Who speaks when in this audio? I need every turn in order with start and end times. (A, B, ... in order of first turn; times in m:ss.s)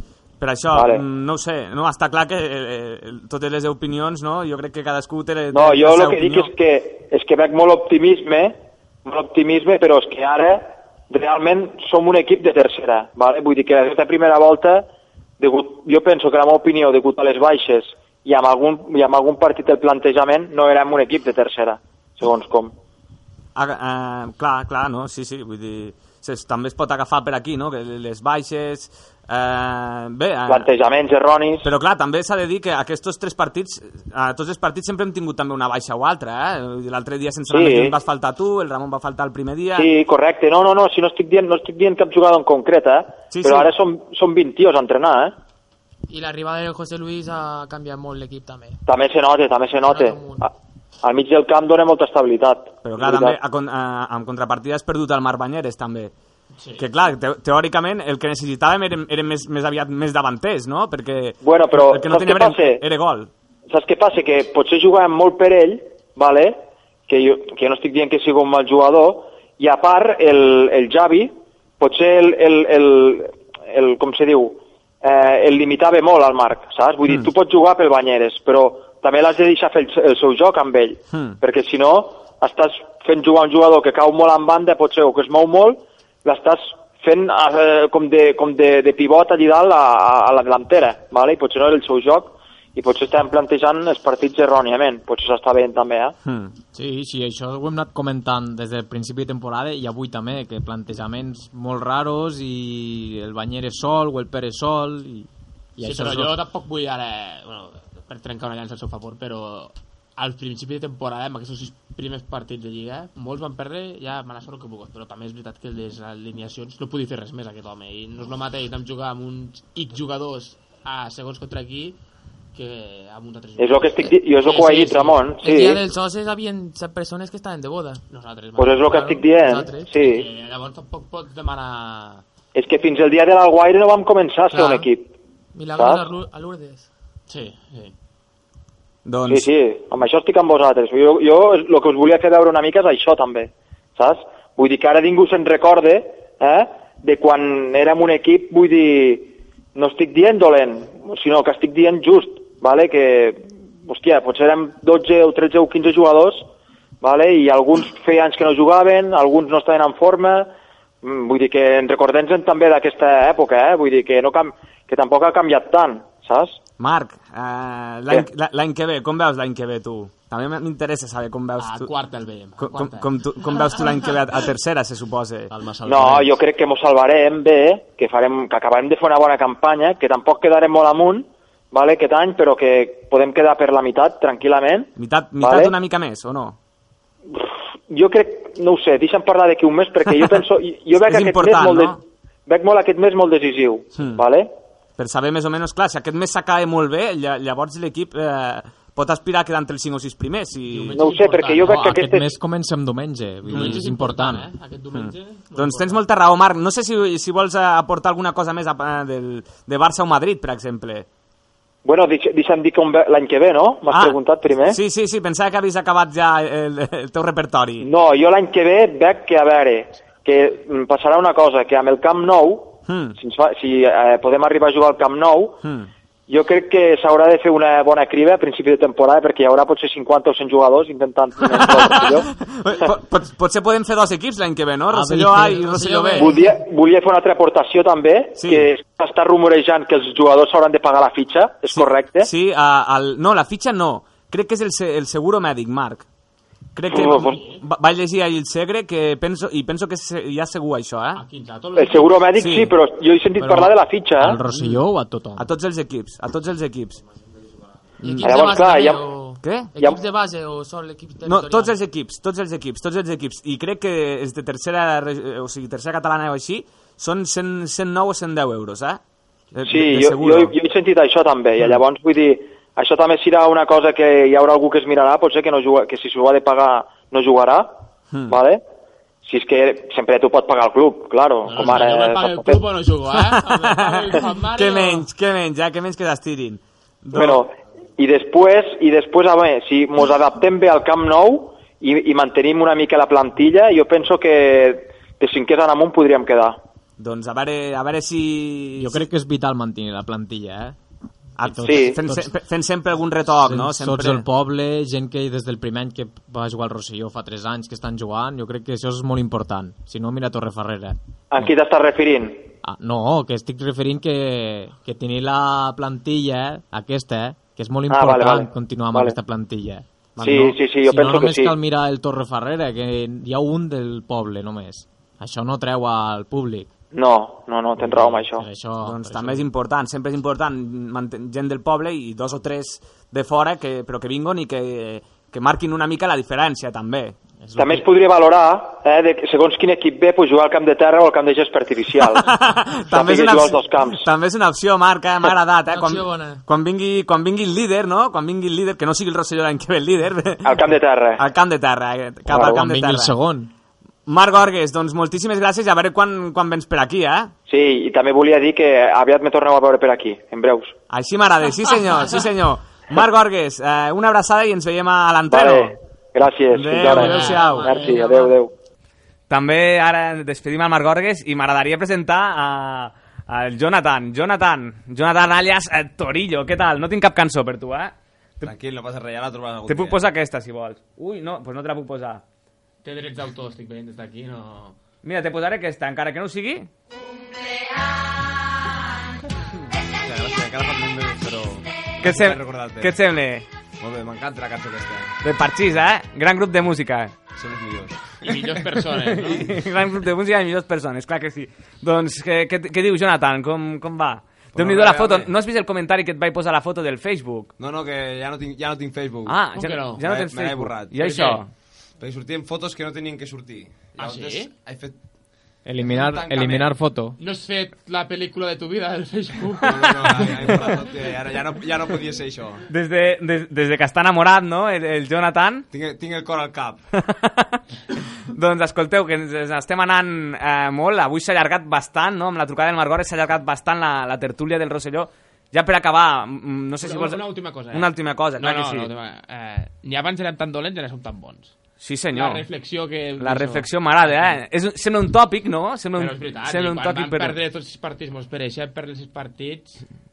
0:00.4-0:06.5 A
0:00.7-0:01.0 B
0:05.5-0:14.8 B
0:15.4-0:22.7 B
0:23.6-0:30.7 A
0:30.5-0:31.7 B
0:31.6-0:39.9 A
0:37.5-0:38.0 B
0:39.8-0:45.4 B
0:43.3-0:43.7 A
0:46.1-0:48.8 C
0:48.9-0:50.5 B
0:49.9-0:50.5 C
0:51.0-0:53.4 B
0:52.8-0:56.1 A
0:56.6-0:56.9 D
0:56.8-1:03.3 A
1:01.4-1:02.8 B
1:03.7-1:36.1 B
1:36.3-1:36.5 A
1:36.7-1:46.4 E
1:45.8-2:02.0 D
2:02.5-2:05.3 D
2:03.6-2:05.9 B
2:05.4-2:08.0 C
2:08.1-2:09.3 D
2:08.6-2:10.3 B
2:09.4-2:09.9 C
2:10.0-2:12.2 D
2:12.6-2:15.1 B
2:14.5-2:14.9 C
2:15.5-2:16.9 C
2:15.7-2:16.0 B
2:17.3-2:17.9 D
2:19.1-2:19.5 A
2:19.3-2:36.5 B
2:37.0-2:46.6 B
2:46.8-2:51.9 A
2:51.6-2:53.1 D
2:52.6-2:55.5 A
2:55.8-3:05.8 B
3:05.0-3:06.6 A
3:07.3-3:14.5 B
3:11.0-3:12.0 A
3:14.0-3:14.2 A
3:15.0-3:21.0 A
3:20.7-3:21.8 D
3:20.9-3:22.3 B
3:21.6-3:24.5 E
3:23.4-3:26.0 D
3:23.5-3:23.8 A
3:24.9-3:31.1 A
3:31.8-3:34.8 B
3:33.9-3:37.9 A
3:37.8-3:45.6 B
3:42.9-3:43.2 A
3:46.3-3:52.3 B
3:51.6-3:56.3 A
3:54.9-3:55.7 E
3:55.7-3:56.4 C
3:56.2-4:02.3 B
3:58.4-3:58.7 A
4:01.7-4:06.0 A
4:06.8-4:11.2 A
4:06.9-4:07.4 B
4:07.2-4:07.6 D
4:11.2-4:12.3 D
4:11.8-4:14.4 B
4:12.4-4:12.7 A
4:13.4-4:15.5 E
4:15.4-4:17.0 A
4:18.0-4:21.8 C
4:18.0-4:18.4 A
4:18.2-4:19.0 B
4:19.4-4:19.8 A
4:21.2-4:29.0 A
4:29.6-4:30.6 A
4:29.6-4:37.7 B
4:38.3-4:38.6 B
4:39.2-4:42.6 B
4:41.5-4:45.1 D
4:43.5-4:47.4 A
4:47.1-4:56.6 B
4:57.0-4:59.0 A
4:58.8-5:00.8 E
5:01.4-5:04.2 A
5:01.4-5:02.3 E
5:01.6-5:02.0 B
5:03.3-5:11.0 E
5:11.3-5:12.5 B
5:12.6-5:26.7 E
5:17.9-5:19.2 B
5:20.2-5:20.5 A
5:20.2-5:21.6 B
5:26.9-5:28.5 B
5:27.8-5:29.4 E
5:28.8-5:37.2 A
5:37.4-5:37.8 E
5:37.6-5:42.3 B
5:42.2-5:50.7 A
5:42.9-5:44.1 B
5:45.7-5:46.4 C
5:50.4-5:51.2 B
5:51.2-5:53.1 A
5:52.3-5:52.6 B
5:52.4-5:53.5 E
5:54.1-5:57.3 A
5:57.5-6:00.7 B
6:00.9-6:05.8 A
6:05.3-6:08.5 B
6:06.5-6:07.9 A
6:06.8-6:08.1 D
6:07.7-6:08.3 C
6:09.3-6:18.5 A
6:18.4-6:20.0 F
6:19.7-6:22.2 A
6:22.8-6:24.8 D
6:25.0-6:26.7 A
6:30.0-6:33.0 F
6:32.0-6:33.5 A
6:33.8-6:35.2 F
6:35.2-6:37.1 A
6:37.4-6:38.2 F
6:38.2-6:39.5 D
6:39.1-6:47.5 A
6:44.6-6:45.3 F
6:47.6-6:49.5 F
6:49.3-6:51.5 A
6:49.5-6:50.0 D
6:50.0-6:51.1 F
6:51.0-6:51.4 D
6:52.0-6:54.9 F
6:54.0-6:54.5 D
6:55.6-6:57.2 E
6:55.8-6:56.7 F
6:57.2-7:00.7 D
6:59.6-7:02.6 F
7:02.7-7:05.7 A
7:05.7-7:06.8 F
7:07.0-7:07.6 A
7:08.3-7:18.9 A
7:16.8-7:21.5 D
7:21.8-7:22.4 A
7:22.1-7:24.4 D
7:23.2-7:27.4 A
7:26.0-7:29.8 D